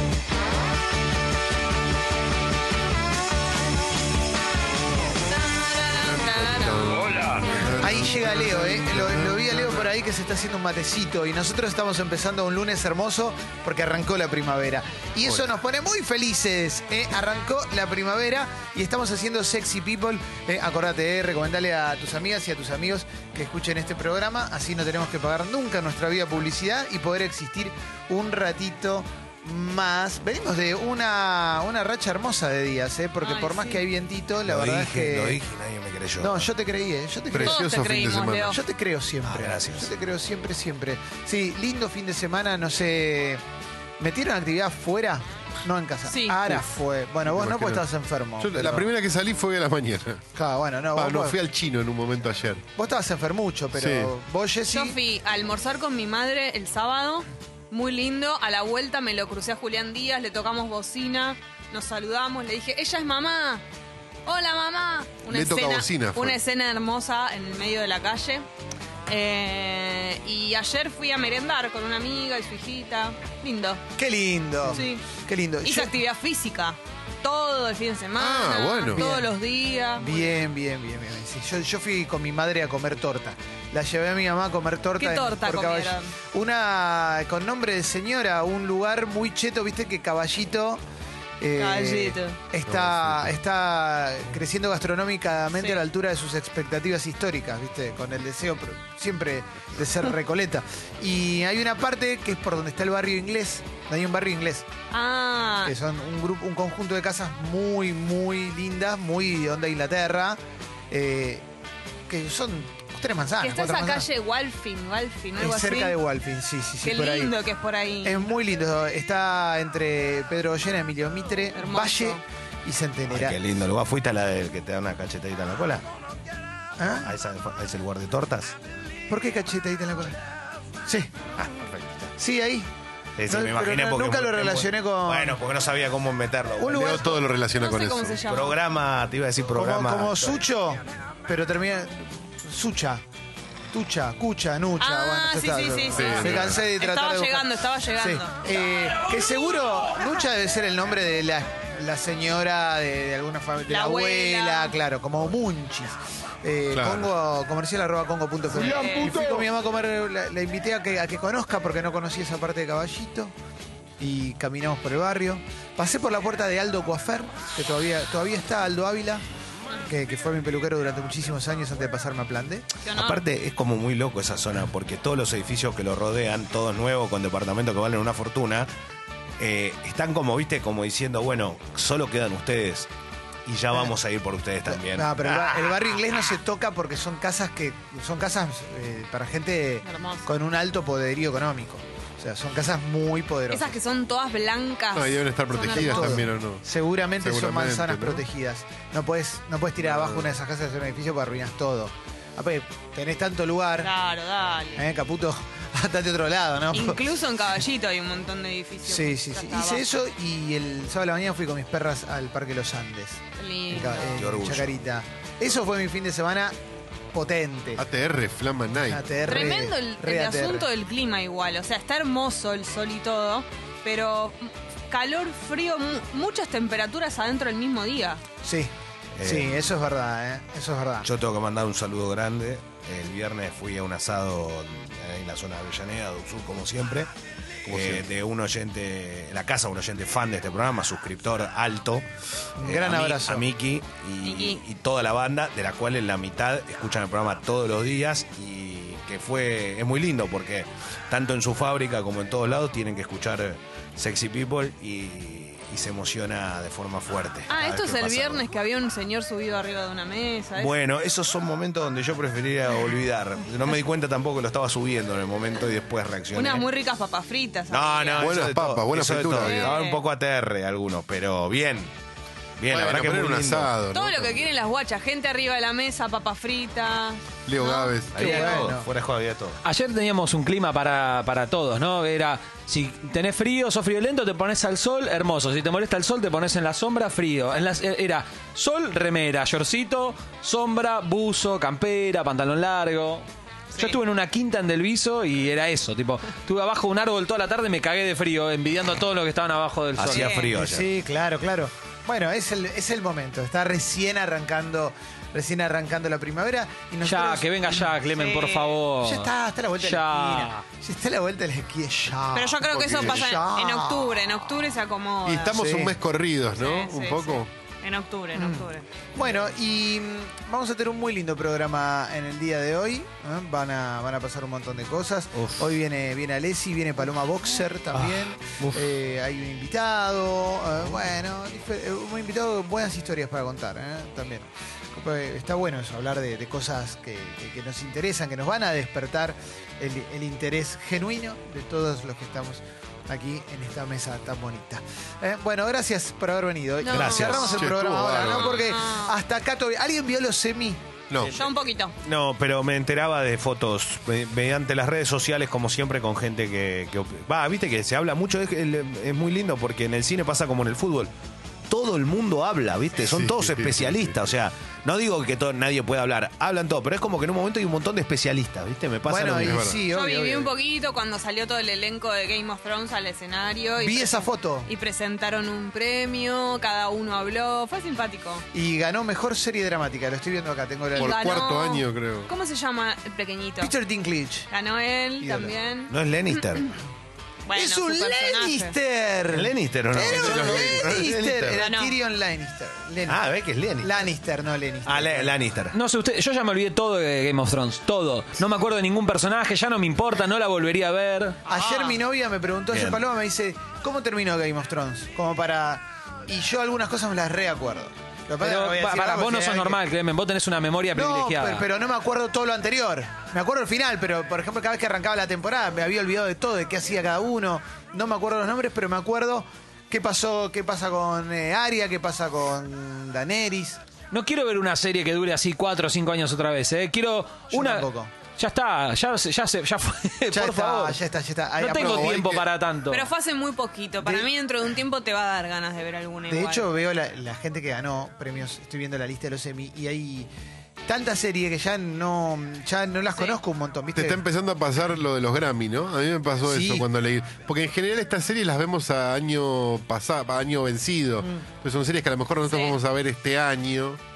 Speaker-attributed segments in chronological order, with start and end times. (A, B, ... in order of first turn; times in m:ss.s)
0:05.2-0:07.1 A
0:06.0-0:09.9 B
0:07.8-0:35.4 C
0:15.2-0:15.5 B
0:33.2-0:33.8 A
0:34.4-0:36.5 D
0:36.2-0:37.6 C
0:37.3-0:38.6 B
0:37.4-0:38.6 A
0:38.5-0:43.4 C
0:39.2-0:39.9 D
0:44.0-0:48.9 C
0:46.0-0:46.6 A
0:47.2-0:47.8 B
0:48.4-0:50.2 B
0:50.3-0:51.4 C
0:50.9-0:52.6 B
0:52.8-0:55.0 C
0:53.7-0:54.1 B
0:54.7-1:03.6 A
1:04.2-1:08.4 A
1:05.3-1:06.4 B
1:09.1-1:13.8 A
1:14.0-1:15.9 C
1:14.6-1:15.0 A
1:15.6-1:20.2 A
1:18.2-1:19.0 B
1:18.9-1:19.3 C
1:20.0-1:30.8 C
1:25.0-1:26.1 A
1:31.4-1:44.7 C
1:31.6-1:32.4 A
1:32.6-1:33.4 B
1:35.5-1:35.8 A
1:44.9-1:45.7 A
1:45.6-1:50.4 C
1:50.9-1:51.4 C
1:52.1-1:54.1 C
1:53.4-1:56.0 A
1:55.4-1:57.3 C
1:56.8-1:58.2 A
1:58.0-2:03.4 C
2:01.5-2:02.2 A
2:03.1-2:05.8 D
2:06.8-2:07.1 C
2:06.9-2:08.5 D
2:09.1-2:10.2 C
2:11.4-2:12.1 D
2:12.2-2:12.7 C
2:13.2-2:17.0 D
2:13.3-2:15.4 C
2:16.6-2:17.2 C
2:16.7-2:18.2 B
2:17.5-2:18.6 A
2:18.3-2:20.4 D
2:19.5-2:23.0 C
2:23.7-2:43.3 C
2:24.8-2:28.3 A
2:26.0-2:26.6 B
2:33.6-2:34.8 A
2:36.7-2:37.1 B
2:38.6-2:39.2 A
2:44.0-2:49.2 C
2:49.9-2:52.7 C
2:52.8-2:53.2 A
2:52.9-2:58.7 D
2:59.4-3:02.9 D
3:03.4-3:06.0 D
3:04.7-3:13.8 C
3:09.8-3:10.3 A
3:13.5-3:16.2 A
3:14.9-3:16.6 B
3:15.6-3:23.9 C
3:17.2-3:18.2 B
3:19.8-3:20.3 B
3:23.8-3:24.9 A
3:24.8-3:27.0 C
3:26.7-3:29.9 A
3:28.8-3:36.5 C
3:33.4-3:34.2 A
3:33.9-3:34.7 D
3:37.1-3:37.8 C
3:37.8-3:39.0 B
3:38.9-3:40.7 C
3:39.2-3:48.2 A
3:48.4-3:51.1 C
3:49.2-3:49.7 D
3:51.0-3:57.1 D
3:57.6-4:02.0 D
3:57.7-3:58.0 B
4:02.6-4:03.4 C
4:02.6-4:18.4 D
4:04.2-4:04.6 A
4:17.5-4:20.7 A
4:20.6-4:26.7 D
4:26.3-4:28.3 A
4:27.7-4:31.9 D
4:28.2-4:29.7 B
4:29.4-4:30.0 A
4:32.6-4:33.7 D
4:32.7-4:34.5 B
4:33.9-4:38.6 A
4:37.5-4:38.4 B
4:38.1-4:39.6 D
4:38.2-4:38.9 C
4:39.6-5:00.4 E
4:53.7-4:54.0 A
5:00.0-5:00.9 D
5:00.1-5:00.5 A
5:00.5-5:07.9 C
5:07.0-5:10.7 E
5:08.1-5:08.8 A
5:09.0-5:14.2 C
5:12.3-5:15.6 A
5:12.6-5:13.3 B
5:15.2-5:17.5 B
5:15.5-5:15.9 C
5:16.5-5:18.8 A
5:18.3-5:50.8 C
5:25.3-5:25.7 D
5:27.9-5:28.8 D
5:46.8-5:47.7 A
5:46.9-5:47.4 D
5:46.9-5:48.7 B
5:48.2-5:49.1 A
5:51.2-6:01.1 D
5:51.3-5:51.9 A
6:01.7-6:09.7 D
6:03.0-6:04.2 B
6:09.1-6:10.5 C
6:09.4-6:09.8 B
6:09.9-6:18.4 A
6:13.8-6:14.7 C
6:18.5-6:21.2 C
6:20.9-6:23.7 A
6:21.0-6:22.3 B
6:23.6-6:24.5 C
6:24.5-6:25.9 A
6:25.2-6:25.6 C
6:25.9-6:26.7 D
6:27.5-6:28.8 A
6:27.5-6:33.2 C
6:29.3-6:31.6 D
6:30.0-6:31.1 B
6:31.6-6:32.0 A
6:33.0-6:34.1 D
6:33.8-6:35.3 C
6:34.8-6:35.8 D
6:35.7-6:41.4 E
6:41.4-6:49.8 C
6:41.5-6:42.0 A
6:42.7-6:43.0 D
6:48.4-6:51.7 E
6:50.9-7:03.8 C
7:04.1-7:11.0 E
7:07.5-7:08.1 C
7:10.3-7:12.4 C
7:11.6-7:13.1 E
7:11.8-7:12.4 B
7:12.9-7:16.7 A
7:14.0-7:14.3 C
7:16.3-7:20.3 C
7:20.8-7:24.2 C
7:23.9-7:34.0 B
7:26.4-7:26.8 C
7:32.4-7:32.8 A